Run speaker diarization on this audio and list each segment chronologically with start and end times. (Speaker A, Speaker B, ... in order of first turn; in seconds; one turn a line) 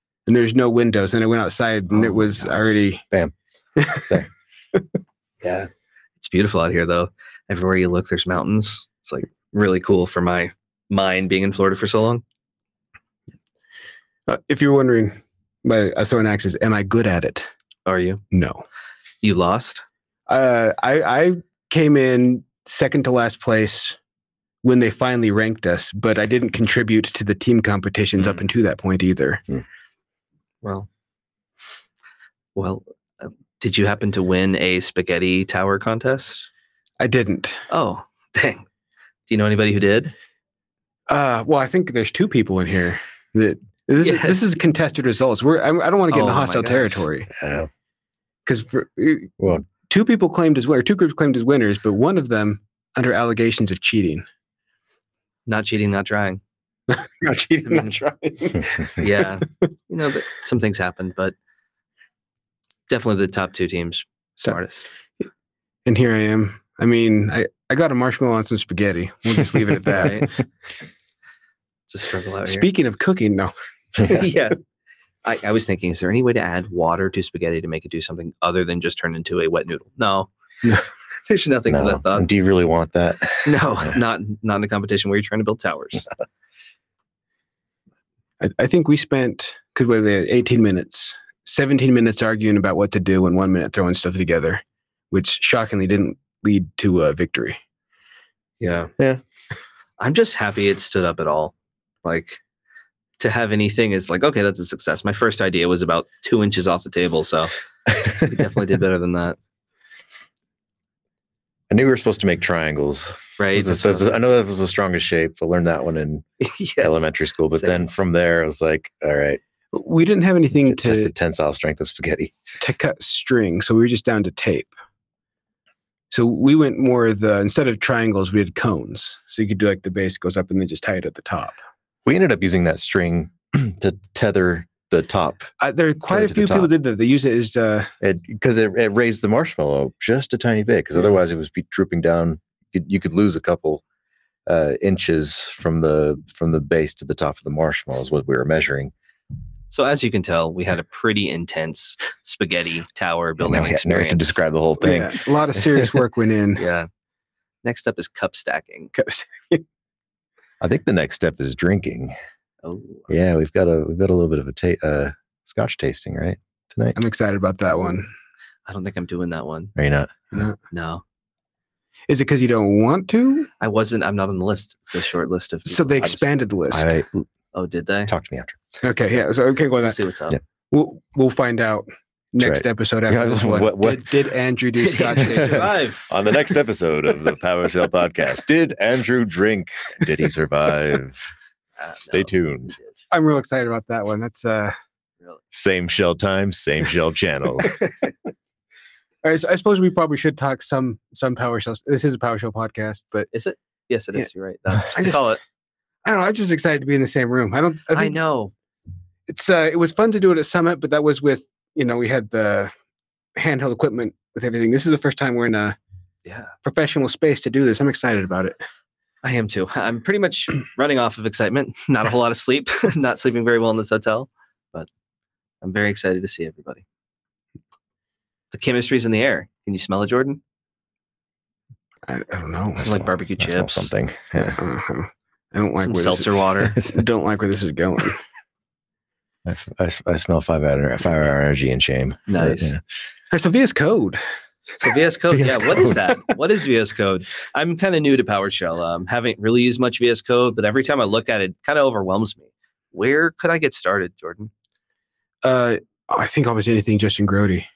Speaker A: 0.2-3.0
Speaker A: 3.8-4.1
Speaker B: 3.9-4.3
Speaker C: 5.4-12.2
Speaker A: 14.3-17.5
Speaker C: 17.9-18.2
Speaker A: 18.3-18.6
Speaker C: 19.2-19.8
Speaker A: 20.3-24.0
Speaker A: 24.6-29.4
Speaker C: 30.6-30.9
Speaker C: 32.5-36.5
Speaker A: 37.0-37.6
Speaker C: 37.7-38.6
Speaker C: 39.3-40.1
Speaker A: 41.1-47.3
Speaker C: 44.0-44.4
Speaker C: 46.1-47.0
Speaker B: 47.4-47.7
Speaker A: 48.5-49.3
Speaker B: 49.4-49.6
Speaker A: 49.9-54.2
Speaker C: 55.5-56.4
Speaker A: 56.9-59.2
Speaker C: 59.0-61.3
Speaker C: 62.9-64.8
Speaker A: 65.8-70.3
Speaker C: 69.9-70.3
Speaker C: 71.9-72.7
Speaker A: 72.5-73.5
Speaker C: 74.0-74.6
Speaker C: 75.2-80.3
Speaker C: 81.2-82.3
Speaker B: 81.7-83.9
Speaker C: 83.4-86.1
Speaker A: 88.4-97.6
Speaker C: 98.6-98.9
Speaker C: 100.0-102.4
Speaker C: 103.2-107.5
Speaker C: 108.1-109.4
Speaker B: 111.7-116.2
Speaker C: 113.4-114.2
Speaker C: 116.4-117.8
Speaker B: 116.8-119.4
Speaker A: 119.7-121.1
Speaker B: 120.6-122.3
Speaker A: 122.6-124.7
Speaker A: 126.1-131.6
Speaker B: 132.1-135.5
Speaker A: 135.6-137.9
Speaker B: 136.1-136.7
Speaker B: 138.0-143.8
Speaker B: 144.4-148.9
Speaker C: 149.7-154.3
Speaker B: 153.4-155.8
Speaker A: 154.8-156.6
Speaker C: 156.6-156.9
Speaker C: 157.6-158.9
Speaker A: 158.9-159.6
Speaker B: 160.6-162.1
Speaker C: 162.6-163.1
Speaker B: 163.1-167.0
Speaker A: 166.9-168.1
Speaker C: 168.7-169.7
Speaker B: 169.8-170.4
Speaker C: 170.7-171.0
Speaker A: 172.1-173.5
Speaker C: 173.6-176.2
Speaker A: 175.7-176.9
Speaker B: 176.7-177.3
Speaker C: 177.5-178.1
Speaker B: 178.1-178.6
Speaker A: 178.8-180.0
Speaker C: 179.8-180.4
Speaker A: 180.7-185.7
Speaker B: 182.4-184.1
Speaker C: 184.8-186.0
Speaker B: 186.1-191.3
Speaker C: 191.8-192.9
Speaker B: 192.0-192.8
Speaker A: 193.1-194.7
Speaker B: 195.5-197.7
Speaker A: 199.2-203.3
Speaker C: 203.3-205.4
Speaker A: 204.9-205.2
Speaker A: 206.0-208.2
Speaker C: 207.9-208.5
Speaker A: 209.3-212.7
Speaker A: 213.3-215.8
Speaker C: 216.2-216.5
Speaker A: 216.6-218.6
Speaker C: 219.2-224.9
Speaker C: 225.6-226.8
Speaker C: 228.5-230.4
Speaker A: 232.1-232.9
Speaker B: 232.8-234.6
Speaker C: 232.8-233.9
Speaker A: 234.3-238.2
Speaker C: 235.8-236.8
Speaker B: 239.4-242.8
Speaker C: 242.3-242.7
Speaker A: 243.3-244.2
Speaker C: 244.8-254.5
Speaker B: 245.3-246.0
Speaker A: 255.4-257.7